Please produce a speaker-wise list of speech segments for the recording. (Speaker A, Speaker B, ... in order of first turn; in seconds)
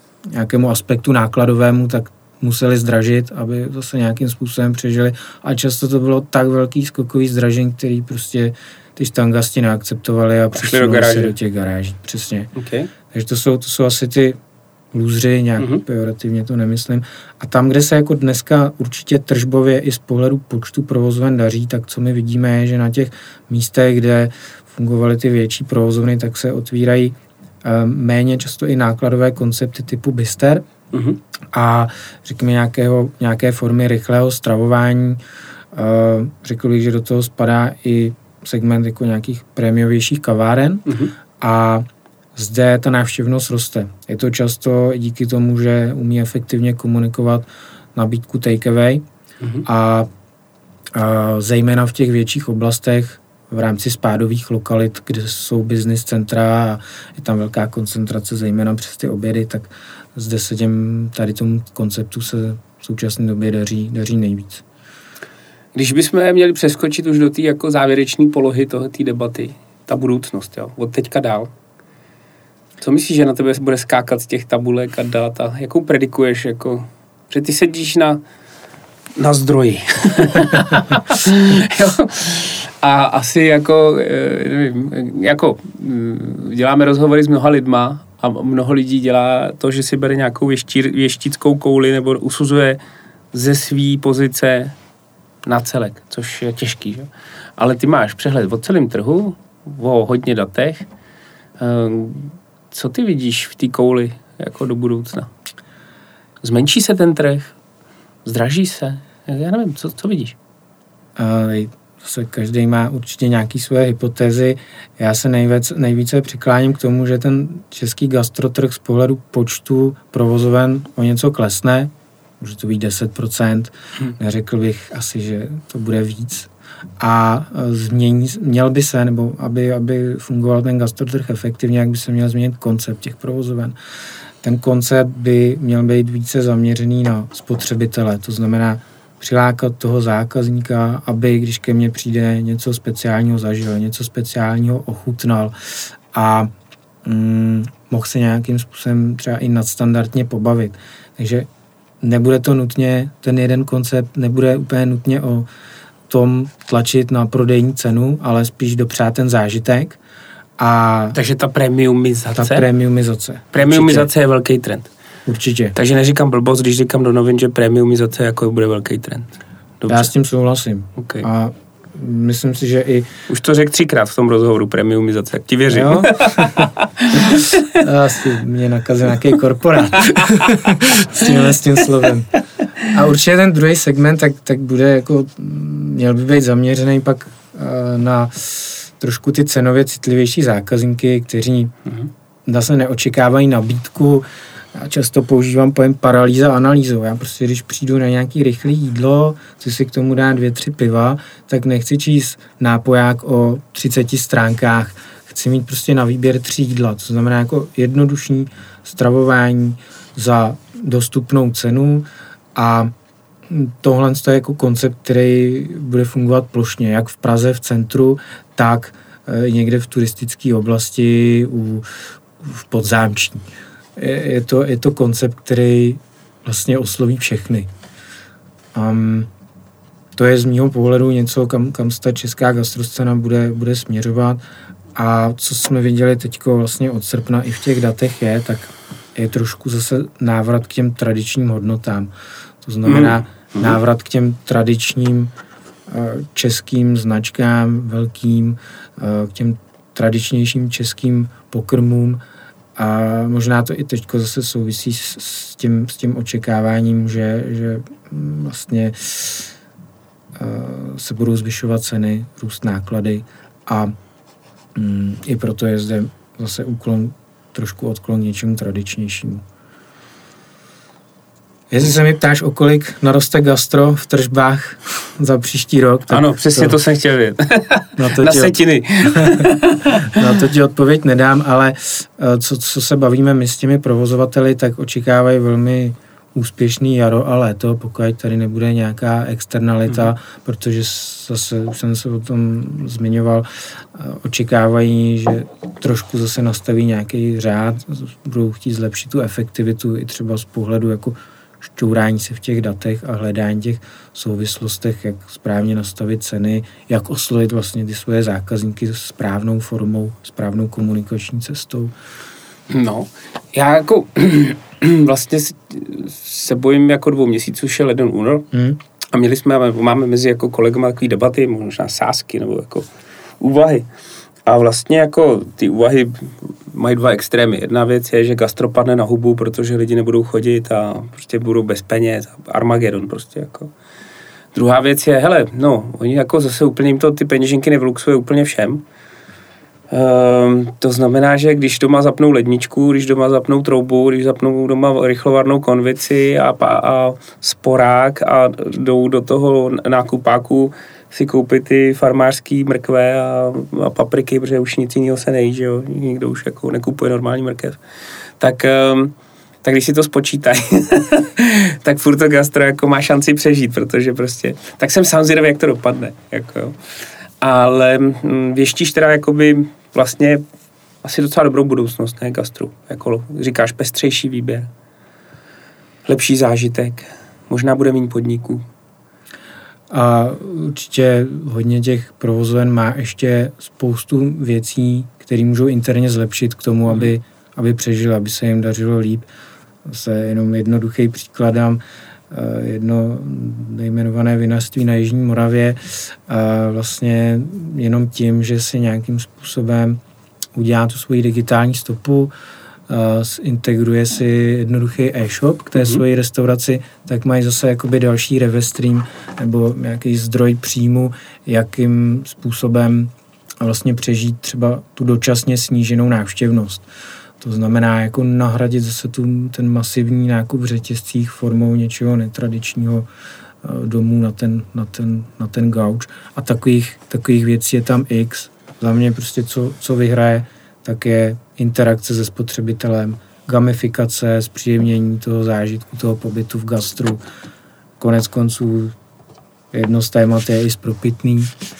Speaker A: 0.3-12.5, 13.1-14.4, 14.9-30.7, 31.5-35.2, 35.7-49.0, 49.6-50.1, 51.0-64.6, 111.2-133.8, 134.4-145.6, 146.1-146.5, 147.0-151.5, 152.0-155.5, 156.1-160.0, 160.6-161.2, 162.3-164.1, 165.3-165.8, 169.9-173.1, 175.7-182.3, 182.8-191.8, 192.4-212.9, 213.5-221.9, 222.4-227.7, 228.7-229.3, 230.1-234.4, 234.9-242.1, 242.6-245.3, 245.9-252.2, 252.8-259.5, 260.3-263.9, 264.7-269.4, 271.7-276.8, 278.0-311.9, 318.5-318.8, 379.9-389.3, 389.8-400.0, 400.6-402.3, 402.9-416.9, 417.4-423.1, 423.6-437.2, 438.0-438.9, 439.7-441.6
Speaker B: 10.5-11.3, 12.6-12.9, 15.6-15.8, 30.9-31.2, 40.9-41.1, 65.7-71.5, 72.8-78.2, 79.2-92.8, 93.3-94.8, 95.5-100.9, 101.6-105.3, 106.4-107.5, 108.2-110.4, 161.1-162.7, 163.5-164.9, 165.7-170.1, 171.0-171.3, 173.3-177.8, 180.0-181.3, 242.8-243.8, 276.1-280.3, 312.7-318.5, 319.1-322.9, 323.4-323.9, 324.4-333.7, 334.5-338.8, 339.9-357.8, 358.4-366.8, 367.4-370.4, 371.0-374.7, 376.1-378.6